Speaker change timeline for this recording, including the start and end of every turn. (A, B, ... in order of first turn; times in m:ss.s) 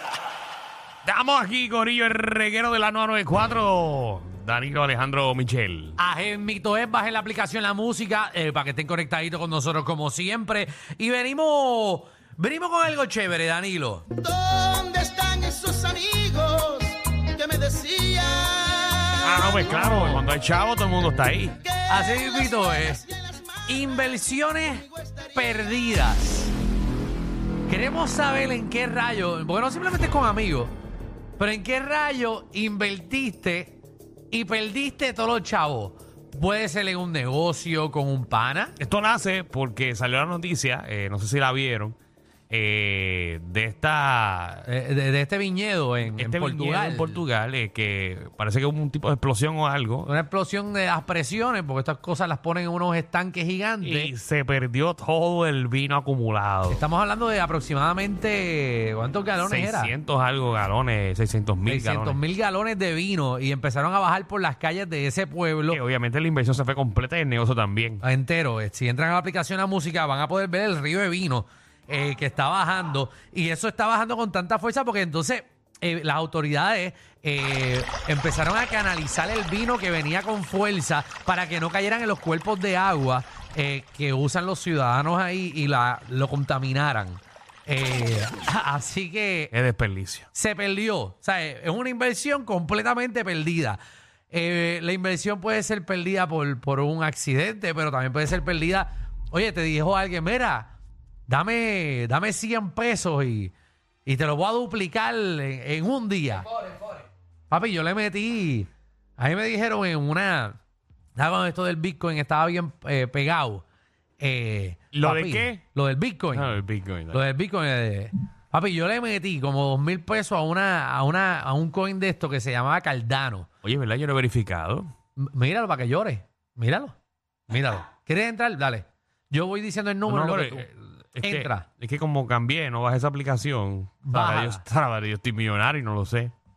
0:01.0-0:06.0 A
0:06.0-0:14.1 B
0:14.2-0:19.1 C
0:19.2-0:21.6 A
0:19.6-0:20.3 B
0:21.6-0:24.1 C
0:21.9-0:23.1 B
0:23.7-0:26.6 B
0:24.9-0:25.5 C
0:27.7-0:30.7 B
0:31.4-0:33.8 B
0:34.3-0:38.8 B
0:38.8-0:42.0 A
0:42.5-0:44.6 A
0:44.6-0:47.2 B
0:46.2-0:50.1 A
0:50.1-0:54.1 B
0:53.8-0:56.8 A
0:56.7-1:00.0 B
0:59.4-1:02.2 A
1:01.7-1:05.8 B
1:05.7-1:08.0 A
1:08.0-1:29.5 B
1:29.5-1:30.3 A
1:30.3-1:33.8 B
1:34.3-1:40.7 B
1:41.3-1:43.5 B
1:44.1-1:46.5 B
1:47.5-1:50.6 B
1:51.2-1:53.6 B
1:54.2-1:56.6 B
1:54.9-1:55.6 A
1:56.3-1:57.2 A
1:57.1-2:03.5 B
2:03.6-2:04.9 A
2:05.2-2:07.0 B
2:07.5-2:11.7 B
2:10.1-2:16.3 A
2:14.0-2:14.6 B